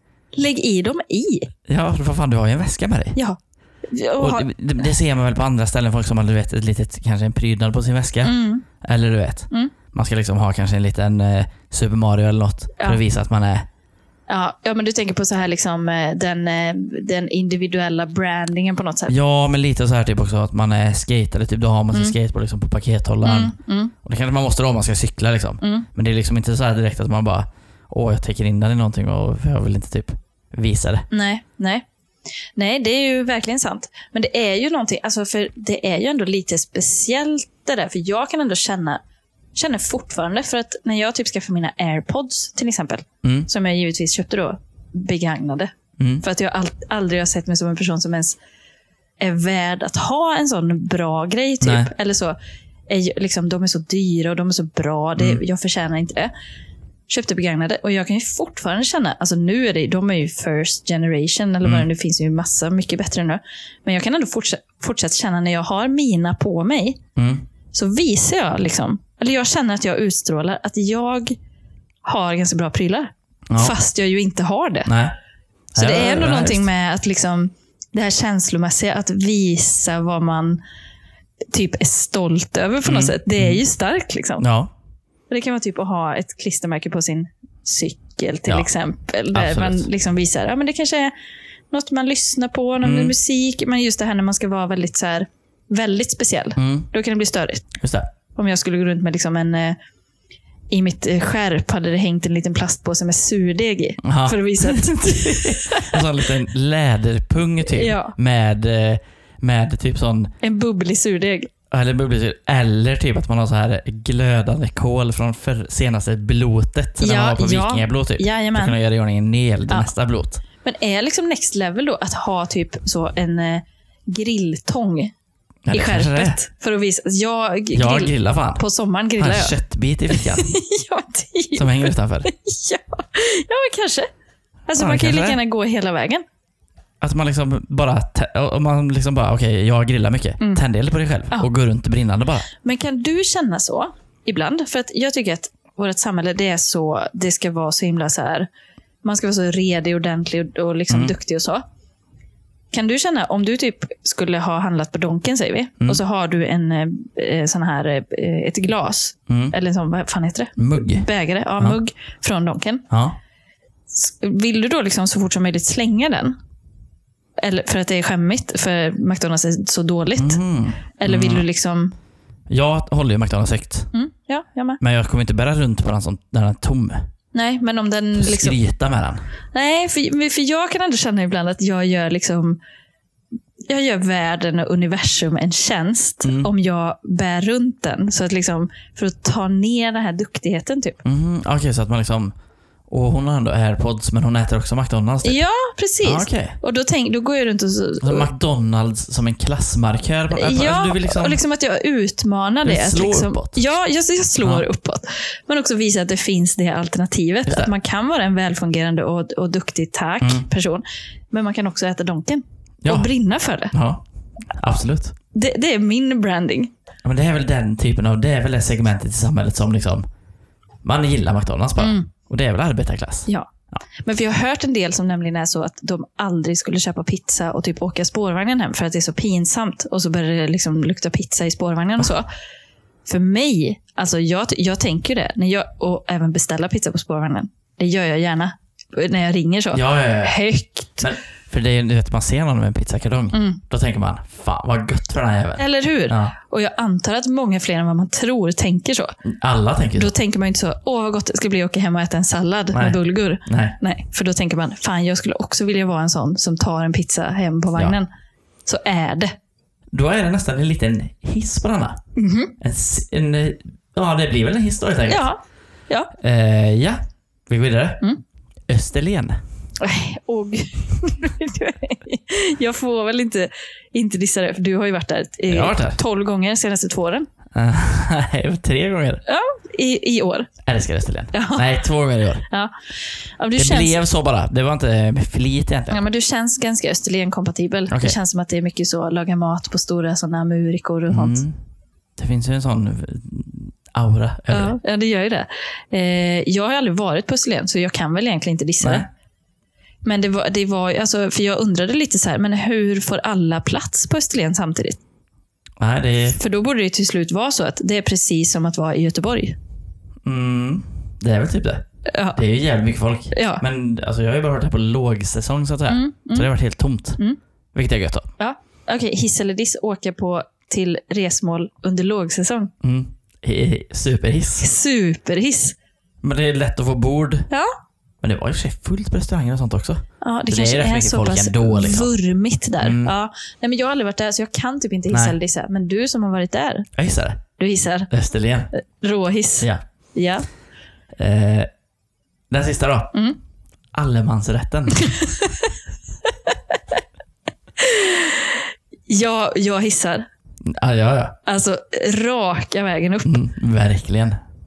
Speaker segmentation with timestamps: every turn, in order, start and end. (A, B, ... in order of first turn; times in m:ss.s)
0:00.3-0:01.5 A
0:01.7-0:03.2 B
0:03.1-0:04.5 A
0:04.2-0:13.7 B
0:08.2-0:08.6 A
0:14.3-0:19.1 A
0:19.1-0:31.0 B
0:23.2-0:23.9 A
0:25.6-0:25.9 A
0:31.1-0:31.8 A
0:32.5-0:39.0 A
0:39.5-0:45.7 A
0:43.2-0:43.5 B
0:46.0-0:46.2 B
0:46.2-0:48.4 A
0:49.2-0:52.4 A
0:51.6-0:51.9 B
0:52.9-0:56.3 A
0:57.1-1:07.0 A
1:07.2-1:07.4 B
1:07.7-1:11.4 A
1:12.0-1:14.9 A
1:13.5-1:13.7 B
1:14.8-1:15.1 B
1:15.7-1:16.7 B
1:15.8-1:20.6 A
1:21.5-1:24.4 A
1:22.8-1:23.6 B
1:24.4-1:24.7 B
1:25.3-1:31.1 A
1:29.3-1:29.9 B
1:31.7-1:37.7 A
1:32.8-1:33.1 B
1:36.6-1:36.9 B
1:37.8-1:38.1 B
1:38.3-1:39.8 A
1:40.7-1:46.3 A
1:44.0-1:50.3 B
1:47.6-1:48.1 A
1:50.4-1:51.5 A
1:51.7-2:00.4 B
1:57.0-1:58.8 A
2:00.6-2:05.1 A
2:05.6-2:06.4 B
2:05.7-2:09.6 A
2:07.7-2:08.6 B
2:09.2-2:10.5 B
2:10.1-2:14.1 A
2:11.5-2:12.3 B
2:14.7-2:16.2 A
2:14.7-2:15.4 B
2:17.0-2:22.5 B
2:22.6-2:28.5 A
2:29.0-2:31.6 A
2:30.9-2:31.1 B
2:32.7-2:42.9 A
2:39.3-2:39.5 B
2:40.6-2:41.1 B
2:42.9-2:43.2 B
2:43.9-2:46.4 A
2:47.4-2:50.4 A
2:50.2-2:51.4 B
2:51.0-2:51.9 A
2:52.5-2:53.9 B
2:53.9-2:54.8 A
2:54.8-2:57.1 B
2:57.3-2:58.6 A
2:58.2-2:59.2 B
2:59.5-3:02.6 A
3:03.7-3:11.0 A
3:06.2-3:06.5 B
3:11.0-3:12.3 B
3:12.9-3:15.4 B
3:15.2-3:18.3 A
3:16.0-3:16.6 B
3:18.0-3:21.4 B
3:20.3-3:33.7 A
3:22.6-3:23.6 B
3:24.4-3:24.6 B
3:27.4-3:27.7 B
3:30.2-3:30.5 B
3:32.8-3:33.1 B
3:33.7-3:35.1 B
3:35.3-3:36.7 A
3:37.0-3:40.1 B
3:40.8-3:43.8 B
3:41.8-3:42.1 A
3:44.0-3:52.3 A
3:53.0-4:01.1 A
3:59.7-4:00.4 B
4:01.0-4:06.3 B
4:03.3-4:03.6 A
4:05.6-4:09.1 A
4:09.2-4:10.1 B
4:10.0-4:18.1 A
4:12.7-4:13.8 B
4:18.6-4:19.3 A
4:19.9-4:22.0 B
4:22.2-4:22.5 A
4:22.6-4:25.2 B
4:25.1-4:26.1 A
4:26.2-4:28.0 B
4:28.7-4:29.4 B
4:29.8-4:37.3 A
4:35.5-4:36.0 B
4:37.5-4:39.2 B
4:39.2-4:40.5 A
4:40.6-4:42.4 B
4:41.3-4:41.7 A
4:42.4-4:42.7 A
4:43.4-4:44.0 A
4:43.6-4:46.0 B
4:45.9-4:51.4 A
4:47.9-4:48.2 B
4:51.1-4:51.6 B
4:52.2-4:54.8 B
4:54.5-4:59.0 A
4:58.8-4:59.1 B
5:00.0-5:05.0 A
5:05.8-5:06.4 B
5:06.4-5:09.6 A
5:10.2-5:17.2 B
5:12.1-5:12.4 A
5:13.3-5:13.6 A
5:15.9-5:16.5 A
5:17.7-5:18.3 B
5:18.4-5:22.7 A
5:22.8-5:24.7 B
5:24.6-5:25.8 A
5:26.2-5:27.5 B
5:28.2-5:32.1 B
5:30.2-5:36.9 A
5:32.8-5:33.1 B
5:35.1-5:35.4 B
5:37.0-5:37.4 B
5:37.6-5:38.1 A
5:38.1-5:38.7 B
5:38.8-5:40.4 A
5:41.2-5:41.7 B
5:42.5-5:43.2 B
5:43.9-5:45.2 B
5:45.0-5:45.7 A
5:46.2-5:47.0 A
5:47.8-5:50.3 A
5:50.6-5:51.4 B
5:51.4-5:53.3 A
5:53.2-5:54.4 B